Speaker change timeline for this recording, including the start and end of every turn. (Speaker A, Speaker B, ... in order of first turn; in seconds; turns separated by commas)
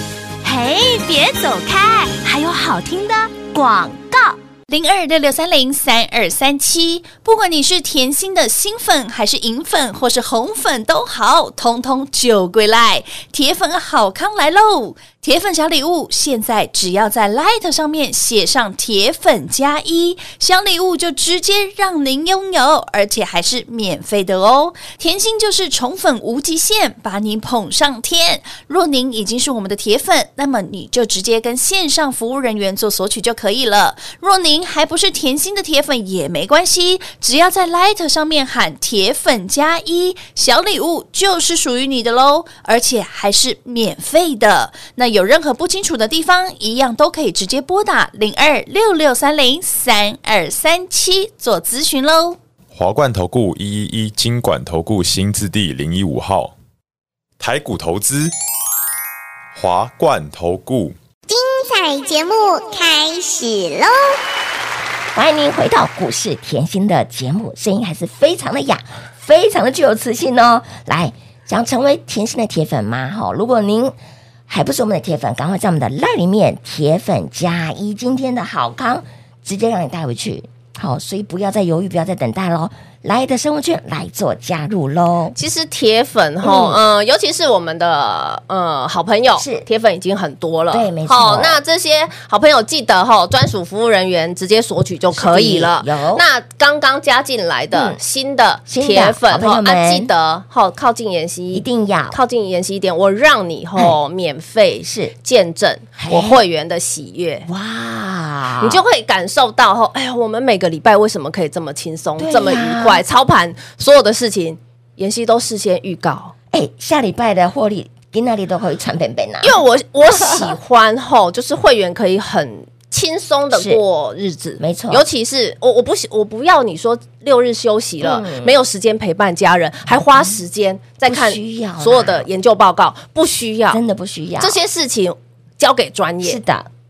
Speaker A: 0.4-52.4, Speaker B: 52.7-56.5, Speaker B: 57.4-58.3, Speaker B: 59.5-61.0, Speaker C: 61.3-64.1, Speaker D: 65.1-74.0, Speaker D: 74.5-85.3, Speaker E: 85.3-107.5, Speaker D: 86.4-86.8, Speaker D: 89.4-89.7, Speaker D: 90.7-91.6, Speaker D: 95.1-96.2, Speaker D: 97.7-98.0, Speaker D: 98.7-100.1, Speaker D: 101.5-102.2, Speaker D: 104.8-105.1, Speaker D: 106.0-106.4, Speaker D: 107.5-108.8, Speaker E: 108.6-116.3, Speaker D: 112.2-113.0, Speaker D: 116.5-119.6, Speaker E: 119.4-133.8, Speaker D: 120.1-120.5, Speaker D: 123.5-123.8, Speaker D: 124.6-125.0, Speaker D: 128.0-128.5, Speaker D: 131.1-132.3, Speaker D: 133.7-134.6, Speaker E: 134.4-136.4, Speaker D: 136.2-136.7